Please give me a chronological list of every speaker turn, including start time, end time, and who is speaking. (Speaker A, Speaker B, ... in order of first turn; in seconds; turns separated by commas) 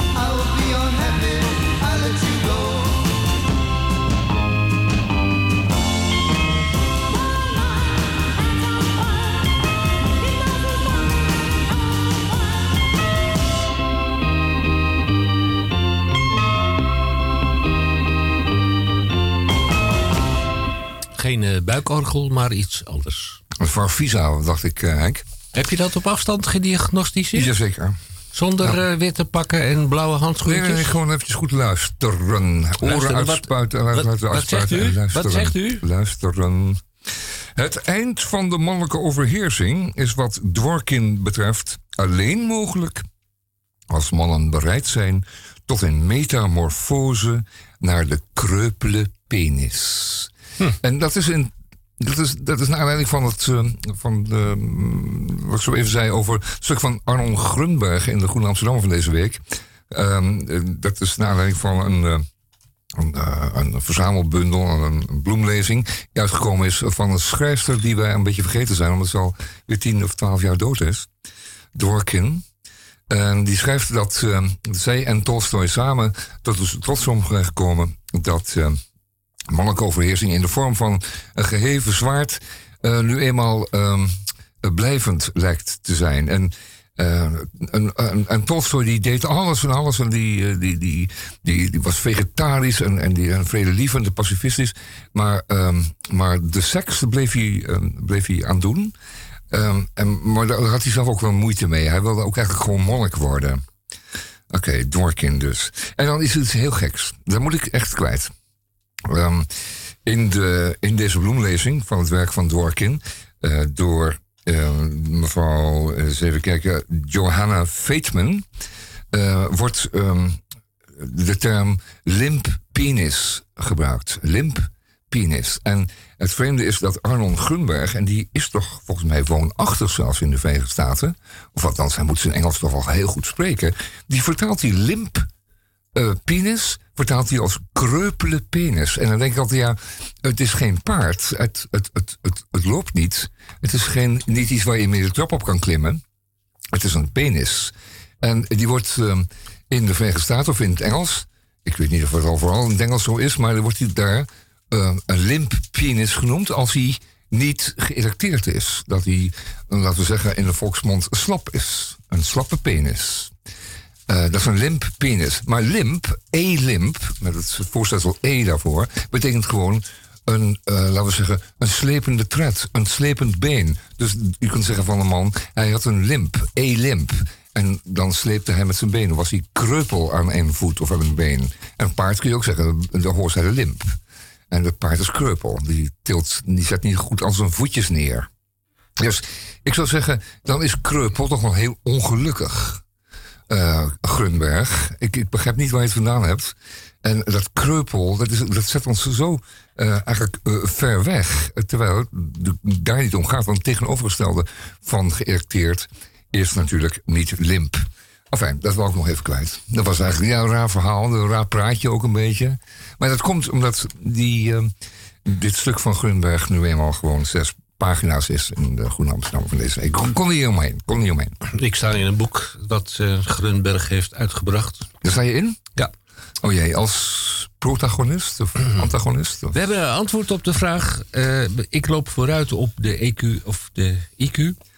Speaker A: 0.2-0.9, Speaker B: 21.1-23.4, Speaker A: 23.6-25.2, Speaker B: 25.5-27.5, Speaker A: 27.3-28.0, Speaker B: 28.3-30.9, Speaker A: 30.4-36.8, Speaker B: 32.8-35.8, Speaker A: 37.5-43.0, Speaker A: 43.9-62.2, Speaker A: 62.9-71.1, Speaker A: 71.7-72.4, Speaker A: 73.1-78.8, Speaker A: 79.5-98.9, Speaker A: 99.5-103.6, Speaker A: 104.5-108.3, Speaker A: 109.0-109.5, Speaker A: 110.0-118.5, Speaker A: 119.1-120.4, Speaker A: 121.0-135.3, Speaker A: 135.9-146.0, Speaker A: 146.7-163.3, Speaker A: 164.1-183.9, Speaker A: 184.5-188.3, Speaker A: 189.0-192.8, Speaker A: 193.5-214.7, Speaker A: 215.2-221.3, Speaker B: 221.5-224.9, Speaker A: 225.0-225.7, Speaker A: 226.4-229.6, Speaker B: 229.5-234.6